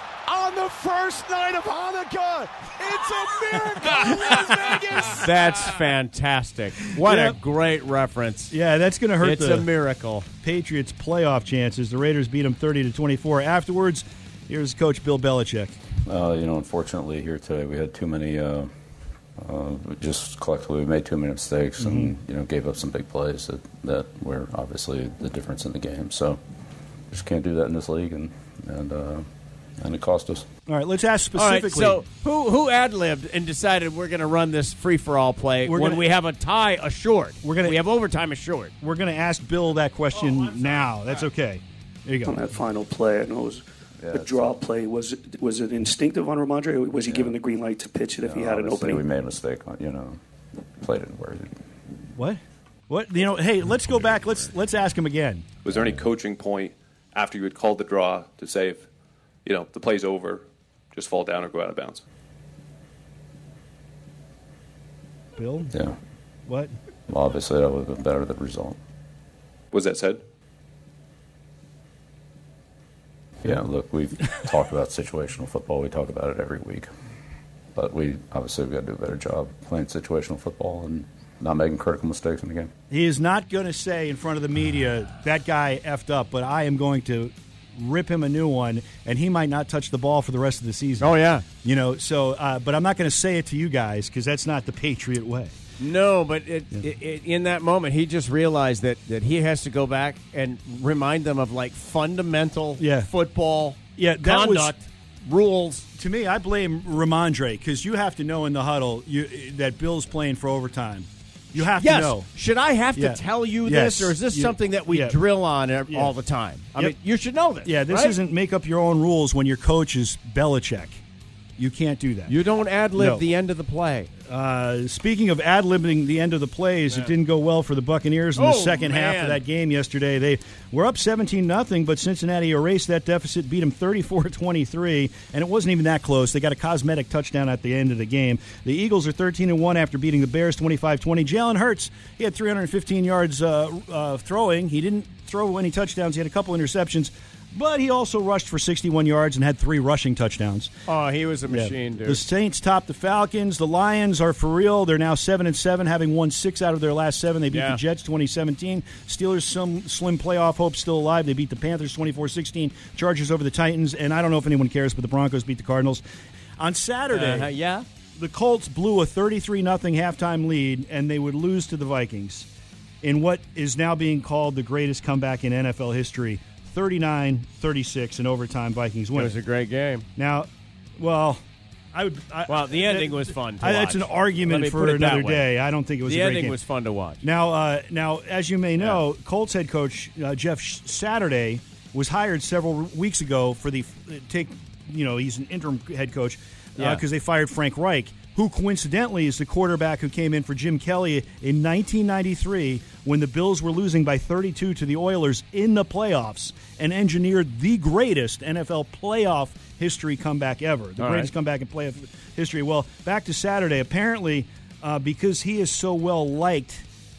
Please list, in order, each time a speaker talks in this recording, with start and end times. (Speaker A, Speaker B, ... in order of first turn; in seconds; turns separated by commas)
Speaker A: 0.3-5.3, Speaker B: 5.2-8.6, Speaker C: 7.0-7.4, Speaker C: 8.5-9.7, Speaker B: 9.2-10.2, Speaker C: 10.4-15.8, Speaker D: 16.1-18.7, Speaker D: 19.4-26.4, Speaker C: 21.8-22.1, Speaker D: 27.1-29.2, Speaker D: 29.8-30.5, Speaker C: 30.7-32.0, Speaker B: 31.4-38.7, Speaker C: 35.6-36.1, Speaker C: 37.4-37.8, Speaker C: 38.8-42.4, Speaker E: 42.2-49.0, Speaker D: 44.0-44.5, Speaker D: 47.0-47.4, Speaker D: 48.2-50.2, Speaker D: 50.8-51.5, Speaker C: 52.1-55.4, Speaker F: 55.6-58.9, Speaker D: 55.7-56.1, Speaker F: 59.5-62.0, Speaker C: 65.3-65.7, Speaker C: 66.5-66.7, Speaker D: 67.1-68.8, Speaker F: 69.7-70.2, Speaker D: 73.4-76.9, Speaker D: 77.7-82.7, Speaker C: 82.9-95.5, Speaker B: 91.0-91.4, Speaker B: 95.8-105.9, Speaker C: 102.8-103.1, Speaker C: 104.0-104.7, Speaker C: 106.0-112.3, Speaker B: 111.6-118.2, Speaker C: 112.9-115.2, Speaker C: 115.9-116.1, Speaker C: 117.6-121.0, Speaker C: 121.6-122.3, Speaker B: 122.3-124.1, Speaker C: 123.0-123.2, Speaker C: 124.3-150.7, Speaker B: 128.3-129.4, Speaker B: 150.9-152.2, Speaker C: 151.5-166.0, Speaker B: 157.5-157.8, Speaker C: 166.6-167.5, Speaker B: 167.1-167.8, Speaker C: 168.2-172.5, Speaker C: 173.0-179.3, Speaker B: 179.1-180.1, Speaker C: 180.2-181.4, Speaker C: 181.9-186.6, Speaker B: 182.5-187.2, Speaker C: 187.2-216.8, Speaker B: 196.8-197.0, Speaker B: 211.0-211.3